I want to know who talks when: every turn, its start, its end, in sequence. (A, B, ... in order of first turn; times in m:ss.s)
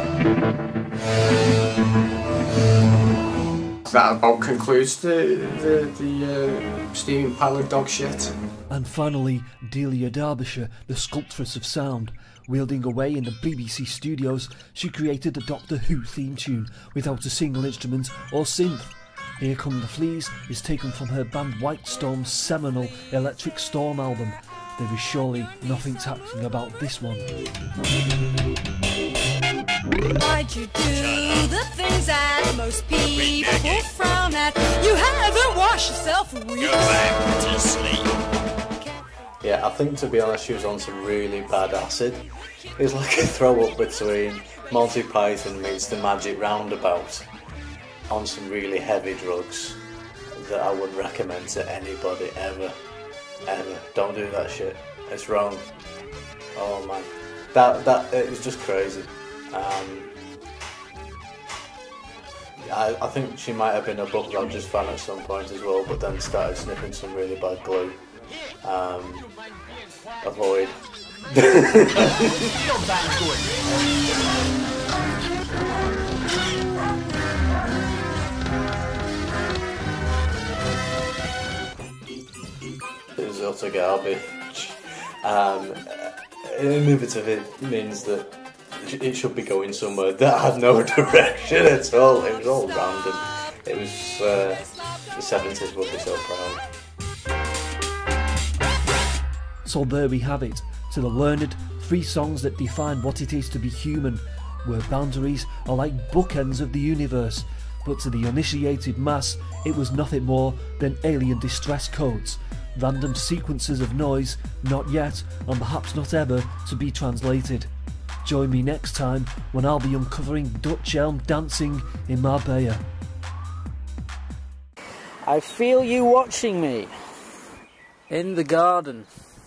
0:03.9-0:08.4 A
0:08.7-0:27.4 B
0:30.0-0:38.0 C
0:39.4-0:47.3 D
0:48.1-0:49.8 D
0:50.4-0:52.8 D
0:53.4-0:55.7 D
0:56.5-1:00.1 D
1:02.6-1:08.0 D
1:08.6-1:09.4 D
1:10.2-1:10.8 D
1:11.8-1:12.0 D
1:23.1-1:36.6 D
1:39.6-1:57.7 B
1:58.2-2:02.8 B
2:05.2-2:06.9 E
2:08.1-2:09.1 E